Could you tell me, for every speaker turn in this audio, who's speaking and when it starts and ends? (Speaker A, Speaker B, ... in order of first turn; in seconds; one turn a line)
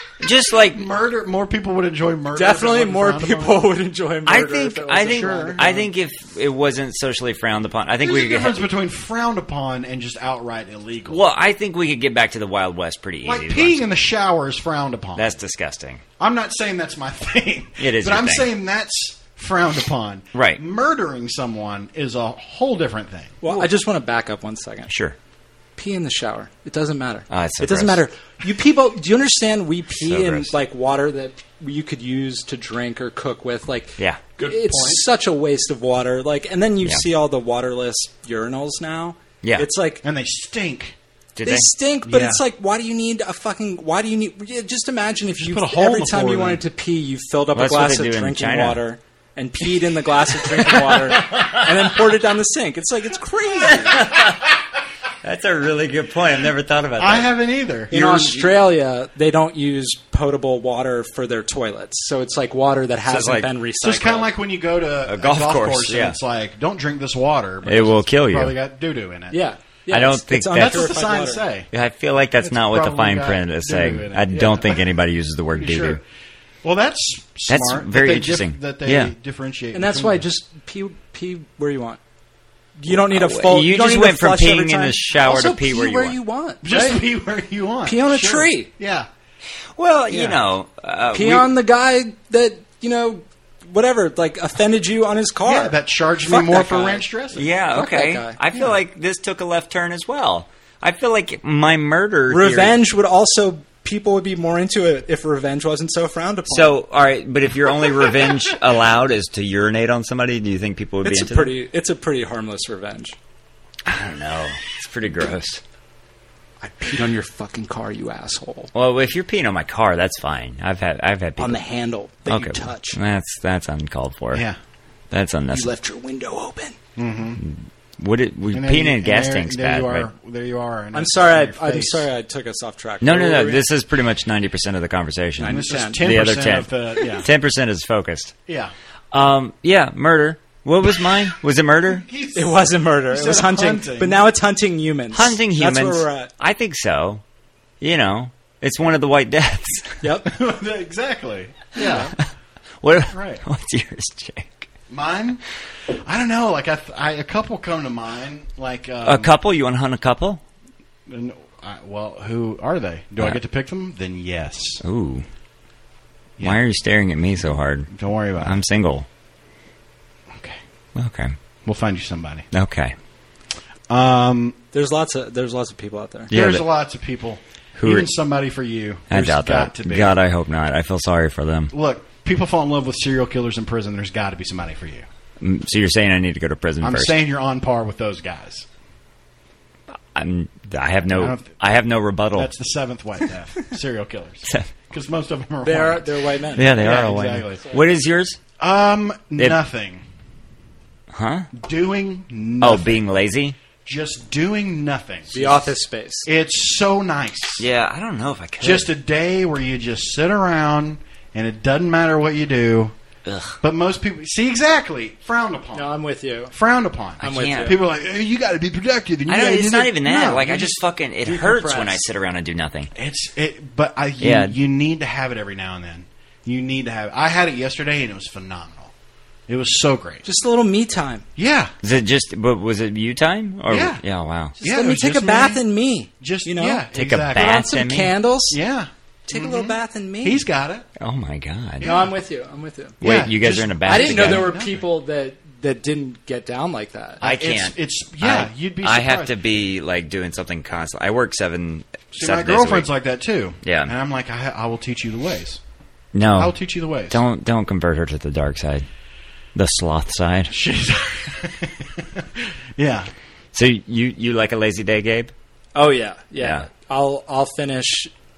Speaker A: 0.2-0.8
Speaker B: 0.7-3.7
Speaker C: 2.3-5.8
Speaker A: 4.3-8.6
Speaker B: 5.1-5.8
Speaker B: 8.0-11.2
Speaker A: 11.1-13.8
Speaker B: 13.2-15.4
Speaker A: 15.2-16.0
Speaker B: 16.2-23.4
Speaker A: 17.8-18.5
Speaker A: 20.3-20.6
Speaker C: 23.4-24.9
Speaker A: 24.9-25.2
Speaker C: 25.8-40.0
Speaker A: 27.3-28.0
Speaker A: 30.0-30.5
Speaker B: 34.4-35.0
Speaker A: 39.4-39.7
Speaker B: 40.0-41.0
Speaker A: 41.4-41.7
Speaker C: 41.4-54.1
Speaker B: 42.0-42.4
Speaker B: 45.4-46.6
Speaker A: 47.5-48.8
Speaker A: 50.4-52.0
Speaker A: 53.6-54.5
Speaker A: 55.2-57.3
Speaker B: 57.0-58.4
Speaker C: 57.9-64.3
Speaker A: 58.1-58.5
Speaker A: 63.1-63.5
Speaker B: 63.8-69.4
Speaker A: 65.1-66.2
Speaker A: 67.7-68.5
Speaker C: 69.3-71.4
Speaker A: 69.9-70.9
Speaker B: 70.5-71.7
Speaker A: 71.7-76.0
Speaker B: 72.4-74.8
Speaker B: 75.6-76.0
Speaker B: 76.6-80.2
Speaker A: 77.5-79.1
Speaker C: 79.7-82.0
Speaker C: 82.8-87.0
Speaker A: 82.9-86.2
Speaker B: 86.6-89.1
Speaker C: 87.8-88.7
Speaker A: 89.8-91.5
Speaker B: 90.1-90.4
Speaker C: 91.1-97.1
Speaker B: 95.5-97.5
Speaker A: 97.3-102.8
Speaker C: 97.7-98.4
Speaker C: 102.3-106.8
Speaker A: 106.5-111.5
Speaker C: 111.0-113.2
Speaker A: 113.9-115.6
Speaker C: 116.6-118.7
Speaker A: 118.7-121.6
Speaker C: 121.4-123.0
Speaker A: 122.3-124.5
Speaker A: 125.1-125.7
Speaker C: 125.5-126.8
Speaker B: 127.0-127.4
Speaker A: 127.4-130.1
Speaker B: 128.5-132.1
Speaker C: 130.9-133.7
Speaker A: 133.0-138.3
Speaker C: 135.4-136.0
Speaker B: 135.4-137.3
Speaker B: 138.5-138.7
Speaker A: 139.1-142.1
Speaker B: 141.9-144.2
Speaker C: 142.3-146.3
Speaker A: 145.1-147.2
Speaker A: 147.8-150.0
Speaker C: 150.0-150.3
Speaker B: 150.3-152.1
Speaker C: 151.8-152.1
Speaker A: 151.9-152.2
Speaker A: 152.8-154.7
Speaker B: 153.1-153.4
Speaker B: 154.9-159.3
Speaker A: 159.0-160.4
Speaker B: 161.1-164.8
Speaker A: 164.8-165.3
Speaker A: 166.4-169.1
Speaker B: 167.9-168.6
Speaker B: 170.3-170.6
Speaker A: 170.9-171.4
Speaker B: 171.7-172.5
Speaker A: 172.5-172.9
Speaker B: 173.9-174.6
Speaker C: 174.7-176.3
Speaker A: 176.3-176.7
Speaker B: 176.3-180.2
Speaker A: 177.8-178.1
Speaker A: 179.1-181.7
Speaker B: 181.7-185.1
Speaker A: 185.4-187.2
Speaker B: 186.8-188.7
Speaker A: 190.1-192.5
Speaker B: 191.1-191.6
Speaker B: 192.3-197.7
Speaker C: 195.6-196.7
Speaker A: 196.6-198.4
Speaker B: 198.6-200.0
Speaker A: 201.1-201.5
Speaker B: 201.5-203.0
Speaker A: 202.6-203.6
Speaker B: 203.8-205.7
Speaker C: 205.3-206.3
Speaker B: 206.3-207.7
Speaker A: 207.6-208.9
Speaker B: 208.6-212.9
Speaker A: 213.3-213.6
Speaker B: 213.6-215.9
Speaker C: 215.7-216.5
Speaker B: 216.5-220.8
Speaker C: 217.2-217.8
Speaker A: 217.2-217.8
Speaker A: 219.3-222.9
Speaker C: 221.2-222.0
Speaker B: 222.9-228.9
Speaker A: 224.2-224.6
Speaker B: 229.5-230.2
Speaker C: 230.2-231.2
Speaker B: 231.4-231.7
Speaker A: 231.8-234.6
Speaker B: 233.7-234.0
Speaker B: 234.6-235.6
Speaker C: 234.6-238.6
Speaker B: 236.2-237.7
Speaker A: 236.9-238.1
Speaker B: 238.5-240.9
Speaker C: 239.3-240.4
Speaker A: 241.0-241.9
Speaker B: 241.8-242.1
Speaker C: 241.8-243.0
Speaker A: 243.0-244.5
Speaker B: 243.0-244.8
Speaker C: 243.8-247.2
Speaker B: 247.2-249.4
Speaker A: 247.2-252.9
Speaker B: 252.1-255.6
Speaker A: 253.6-253.9
Speaker A: 256.1-256.6
Speaker B: 256.4-257.2
Speaker A: 257.1-258.9
Speaker A: 259.6-260.5
Speaker B: 260.5-263.1
Speaker A: 263.5-265.3
Speaker C: 265.8-268.1
Speaker A: 266.4-266.7